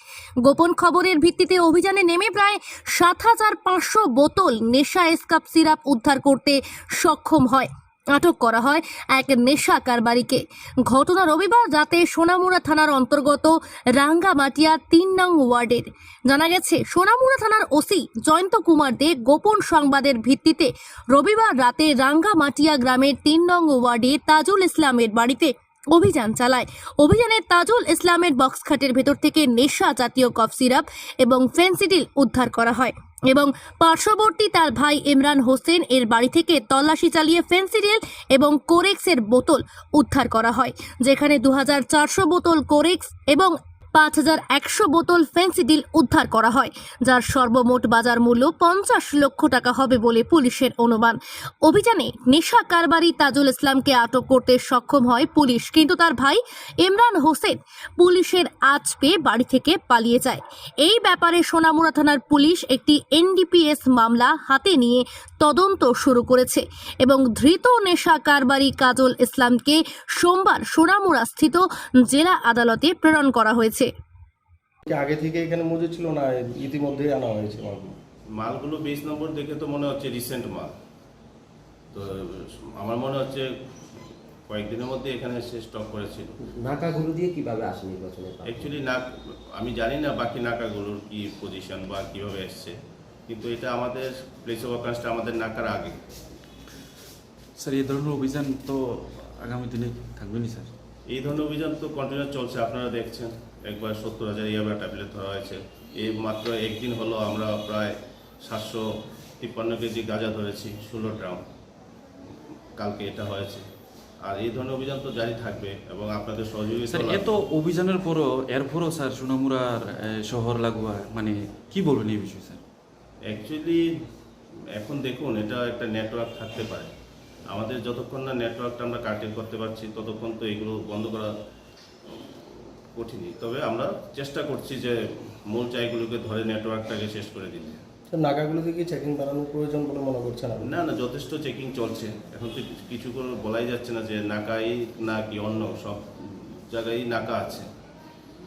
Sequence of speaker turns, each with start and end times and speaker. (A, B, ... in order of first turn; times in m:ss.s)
0:00.4-1:13.9 A
1:14.9-1:17.9 B
1:18.4-1:20.7 C
1:21.9-1:23.5 C
1:24.5-1:26.3 C
1:26.5-1:28.8 D
1:28.4-1:32.8 C
1:33.3-1:36.0 C
1:37.6-1:40.7 E
1:41.1-1:48.8 C
1:49.4-1:51.4 C
1:52.8-1:53.6 C
1:54.2-1:57.3 C
1:56.9-2:02.6 E
2:03.3-2:03.8 C
2:04.8-2:06.9 C
2:07.5-2:11.3 C
2:12.9-2:15.0 C
2:15.5-2:17.8 C
2:18.1-2:20.7 B
2:20.6-2:27.6 C